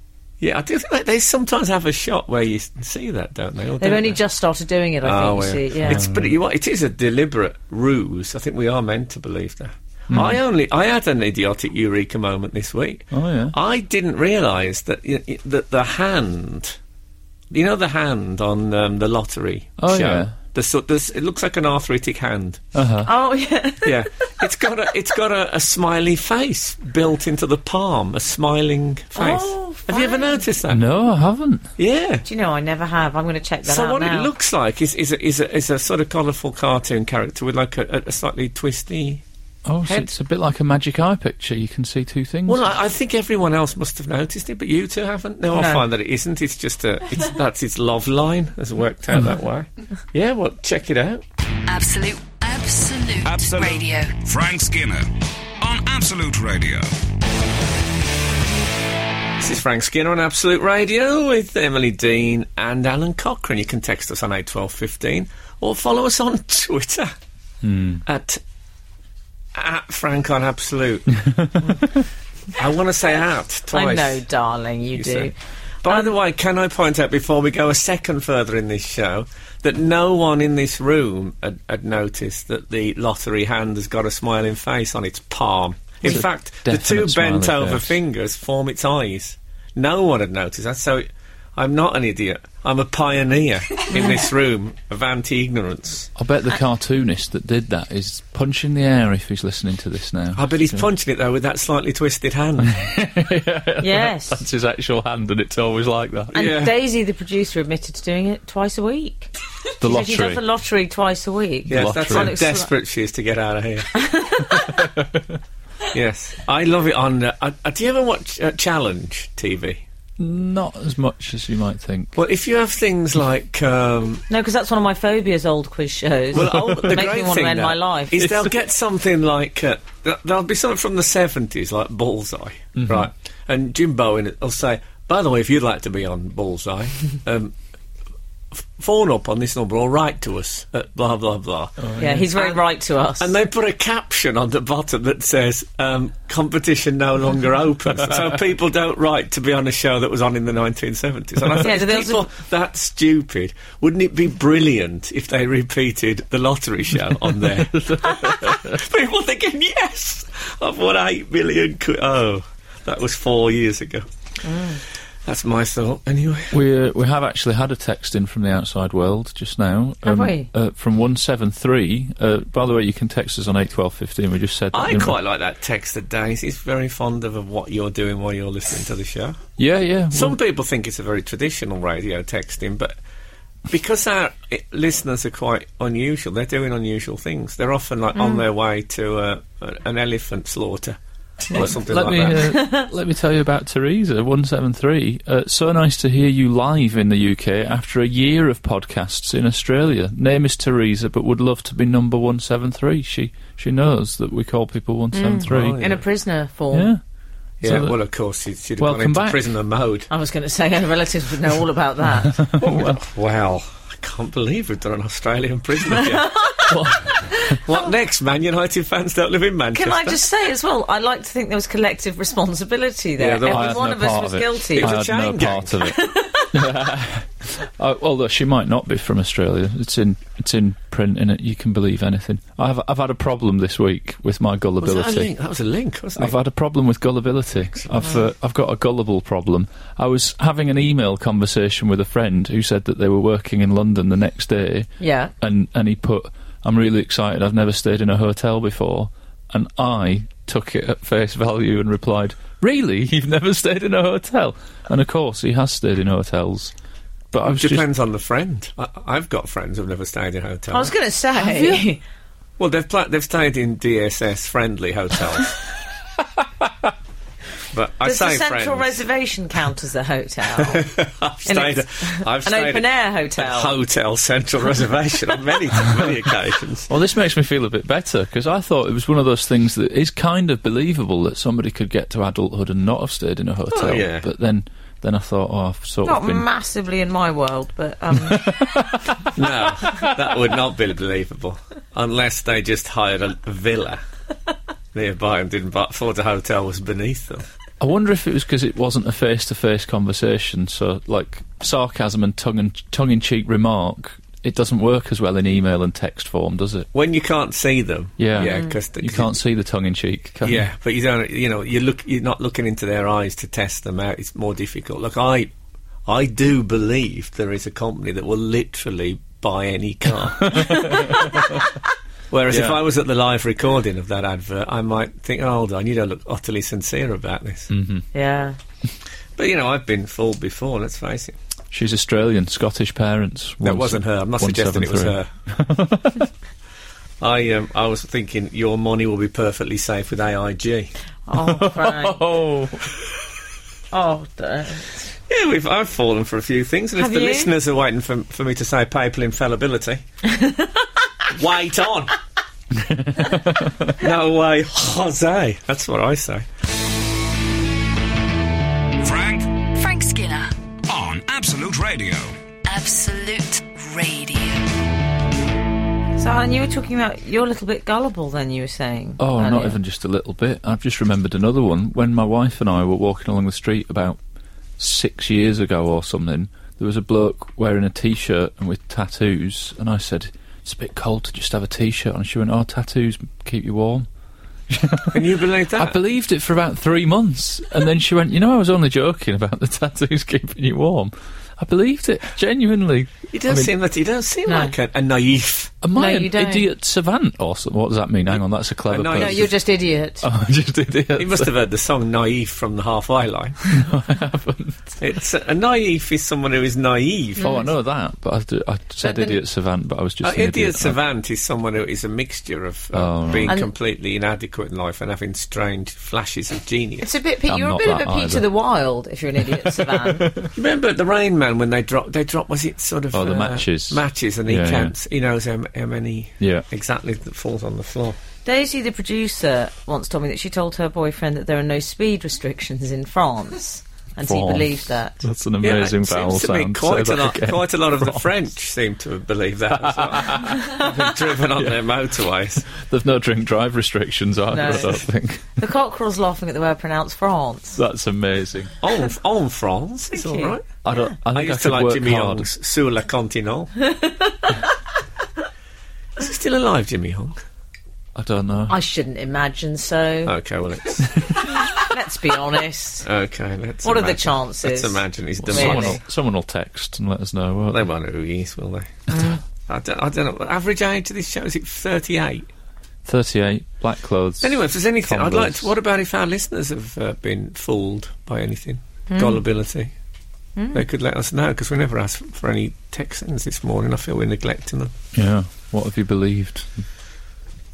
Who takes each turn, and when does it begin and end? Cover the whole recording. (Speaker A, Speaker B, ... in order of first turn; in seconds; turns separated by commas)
Speaker A: 0.4-4.2, Speaker B: 3.8-6.1, Speaker A: 5.0-16.8, Speaker C: 5.9-6.2, Speaker C: 10.1-10.4, Speaker C: 13.1-13.6, Speaker A: 17.5-22.6, Speaker C: 19.8-20.4, Speaker C: 22.7-23.1, Speaker B: 23.0-24.3, Speaker A: 23.8-30.8, Speaker B: 29.2-30.5, Speaker C: 30.7-31.7, Speaker A: 31.8-32.3, Speaker B: 32.3-34.3, Speaker A: 33.6-39.2, Speaker C: 39.7-42.7, Speaker A: 42.5-51.2, Speaker B: 45.5-45.8, Speaker D: 51.7-54.2, Speaker E: 53.2-57.0, Speaker A: 59.4-67.1, Speaker C: 67.6-68.0, Speaker A: 68.0-68.4, Speaker A: 69.5-71.2, Speaker C: 71.3-71.6, Speaker A: 72.5-74.2, Speaker B: 73.7-75.3, Speaker A: 75.0-75.3, Speaker A: 75.8-96.1, Speaker B: 75.9-76.1, Speaker C: 86.0-87.9, Speaker B: 93.9-94.2, Speaker C: 96.2-100.8, Speaker A: 100.3-102.8, Speaker C: 102.6-106.4, Speaker B: 103.8-104.4, Speaker A: 106.3-106.7, Speaker B: 106.3-109.3, Speaker C: 109.8-110.4, Speaker B: 109.8-112.7, Speaker C: 111.7-112.4, Speaker A: 111.7-114.0, Speaker B: 113.9-114.8, Speaker A: 115.9-119.8, Speaker C: 120.2-122.2, Speaker A: 122.2-124.2, Speaker B: 124.3-128.3, Speaker A: 126.3-137.6, Speaker C: 132.8-133.1, Speaker A: 138.5-142.6, Speaker C: 141.8-142.2, Speaker B: 142.0-143.3, Speaker A: 143.2-164.1, Speaker B: 151.6-152.3, Speaker C: 157.7-158.7, Speaker B: 164.4-164.8, Speaker A: 165.2-166.6, Speaker C: 166.5-175.2, Speaker B: 170.0-170.5, Speaker A: 174.7-179.4, Speaker C: 179.6-180.4, Speaker A: 180.1-183.0, Speaker A: 183.7-191.0, Speaker B: 188.2-188.4, Speaker A: 191.5-192.6, Speaker C: 191.5-205.8, Speaker B: 192.4-192.9, Speaker B: 205.1-206.9, Speaker A: 205.5-206.0, Speaker C: 206.7-207.0, Speaker C: 207.6-208.0, Speaker A: 207.6-210.1, Speaker C: 208.8-209.4, Speaker B: 210.1-212.5, Speaker C: 212.4-213.0, Speaker A: 212.6-216.4, Speaker B: 215.9-216.9, Speaker C: 216.7-217.3, Speaker A: 217.5-220.2, Speaker B: 219.7-224.9, Speaker A: 223.2-223.9, Speaker C: 223.4-235.3, Speaker A: 224.8-225.9, Speaker B: 225.8-226.5, Speaker A: 234.8-236.4, Speaker C: 236.2-256.7, Speaker A: 237.7-238.1, Speaker B: 245.0-245.3, Speaker C: 257.3-257.9, Speaker A: 257.4-260.9, Speaker B: 260.7-262.0, Speaker A: 262.6-265.6, Speaker A: 267.7-269.0, Speaker B: 268.0-270.9, Speaker A: 270.6-276.9, Speaker B: 271.5-273.8, Speaker C: 276.9-286.4, Speaker A: 283.7-284.3, Speaker B: 286.0-288.5, Speaker C: 288.2-289.3, Speaker A: 289.4-294.0, Speaker A: 294.9-297.5, Speaker C: 297.8-306.9, Speaker A: 306.9-309.4, Speaker C: 308.2-310.7, Speaker B: 308.4-308.8, Speaker A: 310.4-315.5, Speaker A: 316.1-321.7, Speaker C: 320.4-321.7, Speaker A: 322.3-327.7, Speaker C: 322.5-322.8, Speaker C: 327.7-328.1, Speaker B: 328.1-328.6, Speaker A: 329.4-331.4, Speaker C: 331.7-336.3, Speaker A: 333.6-335.3, Speaker A: 337.2-340.9, Speaker B: 341.3-342.2, Speaker C: 341.4-342.9, Speaker B: 343.9-345.1, Speaker A: 345.3-350.0, Speaker B: 347.0-347.5, Speaker B: 350.2-350.9, Speaker A: 351.3-352.1, Speaker C: 352.8-354.0, Speaker A: 354.0-356.5, Speaker E: 359.0-359.7, Speaker D: 359.8-360.5, Speaker E: 360.9-362.4, Speaker D: 362.7-364.7, Speaker B: 366.2-369.8, Speaker C: 369.2-374.2, Speaker C: 374.8-384.1, Speaker C: 384.7-393.7, Speaker A: 385.1-386.0, Speaker A: 393.3-395.7, Speaker B: 394.5-394.8, Speaker C: 395.8-399.6, Speaker B: 395.9-396.7, Speaker A: 398.9-399.5, Speaker B: 399.1-400.3, Speaker C: 400.2-401.5, Speaker A: 401.2-403.6, Speaker C: 403.6-405.0, Speaker A: 405.0-407.6, Speaker B: 407.4-407.7, Speaker C: 407.4-411.0, Speaker B: 409.0-409.4, Speaker A: 410.2-417.1, Speaker C: 412.9-413.6, Speaker B: 417.0-420.4, Speaker C: 417.5-418.5, Speaker C: 419.6-420.4, Speaker A: 420.5-428.2, Speaker C: 423.1-424.9, Speaker C: 426.4-426.7, Speaker B: 428.4-435.2, Speaker C: 434.3-438.2, Speaker A: 435.6-442.7, Speaker C: 439.8-440.9, Speaker C: 442.7-445.5, Speaker B: 444.5-445.0, Speaker B: 445.6-447.8, Speaker C: 447.8-448.7, Speaker A: 448.8-453.7, Speaker B: 450.1-451.0, Speaker C: 450.8-452.5, Speaker B: 453.9-454.4, Speaker A: 456.2-457.4, Speaker C: 458.1-458.8, Speaker B: 458.7-460.3, Speaker A: 460.2-461.1, Speaker B: 461.7-463.1, Speaker A: 463.0-466.0, Speaker B: 463.8-466.0, Speaker C: 465.4-467.8, Speaker A: 467.7-472.5, Speaker B: 469.1-469.4, Speaker C: 473.1-475.7, Speaker A: 474.4-479.9, Speaker B: 479.1-479.4, Speaker B: 480.6-480.8, Speaker A: 480.7-484.9, Speaker C: 485.1-486.8